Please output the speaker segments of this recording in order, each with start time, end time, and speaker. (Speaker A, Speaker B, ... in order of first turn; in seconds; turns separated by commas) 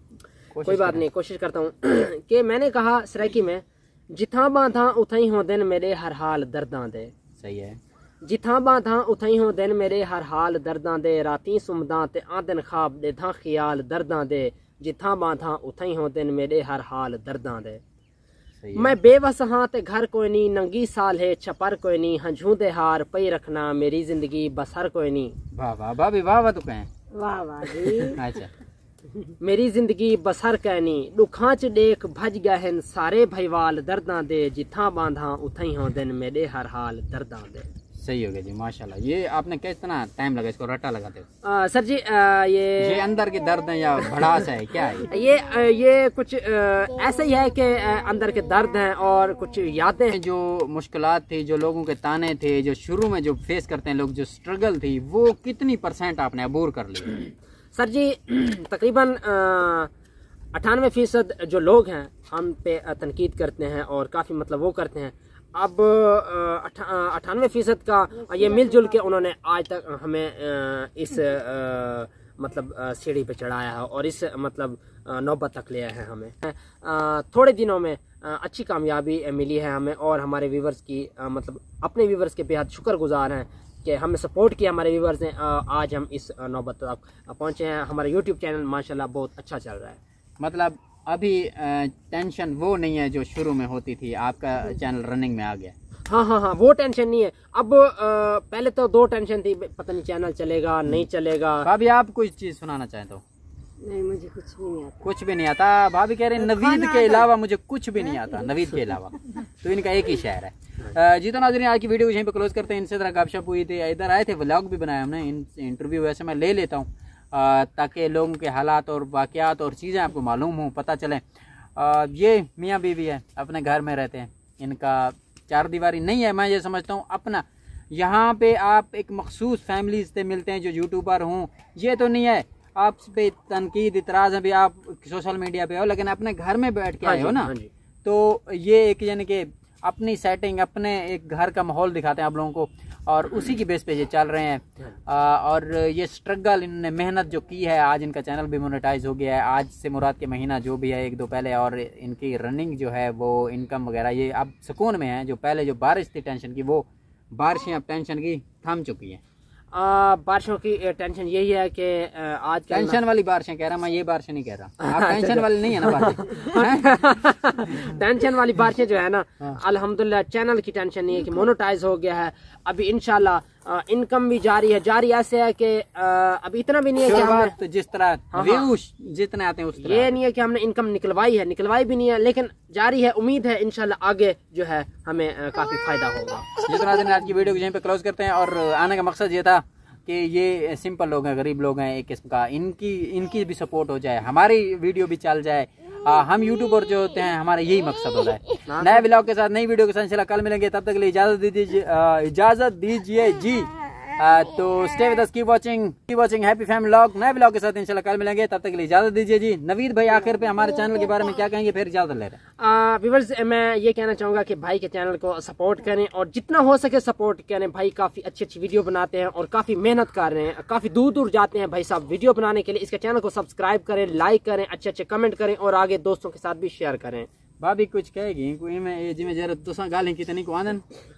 Speaker A: 0.5-1.0, Speaker B: 0.7-7.1, Speaker A: 7.4-7.8, Speaker B: 8.2-17.8, Speaker A: 18.6-19.0, Speaker B: 18.8-25.4, Speaker A: 25.5-26.9, Speaker C: 27.1-28.2, Speaker A: 28.1-28.5, Speaker B: 29.4-37.7, Speaker A: 38.0-41.3, Speaker B: 41.4-43.0, Speaker A: 42.8-45.1, Speaker B: 45.1-50.2, Speaker A: 50.1-57.2, Speaker B: 57.8-59.9, Speaker B: 60.5-90.0, Speaker A: 90.4-95.7, Speaker B: 96.1-101.7, Speaker A: 101.6-103.2, Speaker C: 103.8-105.1, Speaker A: 105.0-121.2, Speaker A: 121.8-137.5, Speaker B: 137.0-137.7, Speaker A: 138.0-159.2, Speaker B: 159.7-163.0, Speaker A: 162.7-167.0, Speaker B: 164.8-177.6, Speaker A: 177.0-180.1, Speaker B: 178.3-178.7, Speaker B: 179.8-186.5, Speaker A: 186.7-212.4, Speaker B: 198.7-199.1, Speaker B: 212.6-227.3, Speaker A: 227.6-230.8